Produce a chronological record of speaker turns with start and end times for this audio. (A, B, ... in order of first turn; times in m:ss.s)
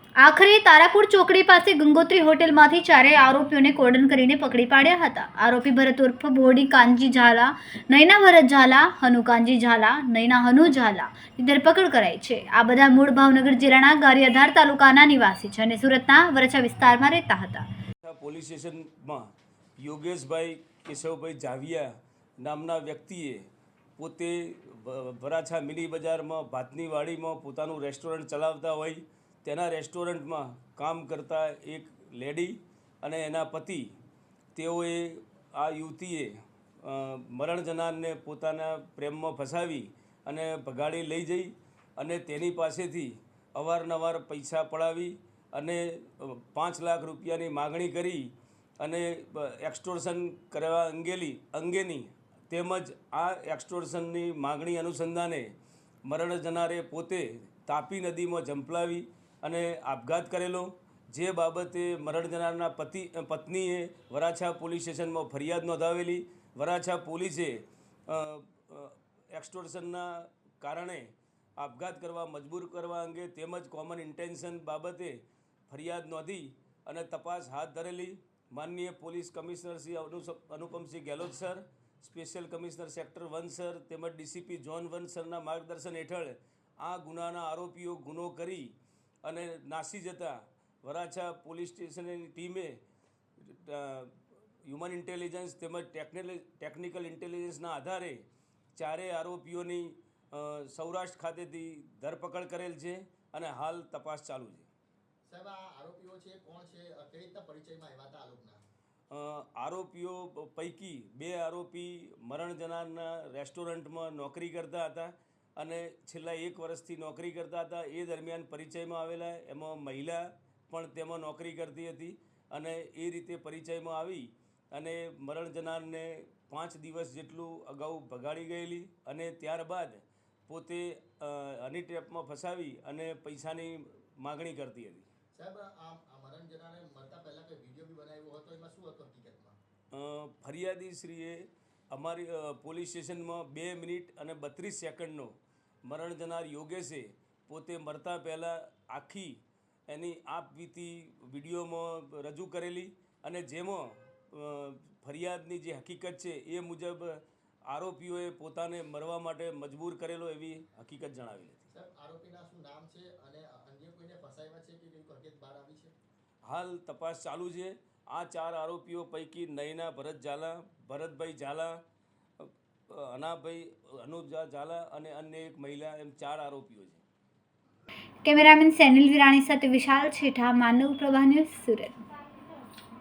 0:00.2-0:17.6 A
0:18.0-0:33.9 B
0:34.6-0:48.3 B
0:48.8-0:55.5 B
0:56.1-1:28.7 B
1:29.2-1:32.8 B
1:33.4-1:34.1 B
1:34.6-1:38.2 B
1:38.8-1:44.7 B
1:45.3-1:48.6 C
1:49.1-2:15.1 B
2:15.3-2:19.6 C
2:19.9-2:25.3 B
2:25.8-2:37.2 B
2:37.7-2:41.7 B
2:41.7-2:45.9 C
2:46.4-2:51.8 B
2:52.4-2:57.0 B
2:58.2-3:02.0 A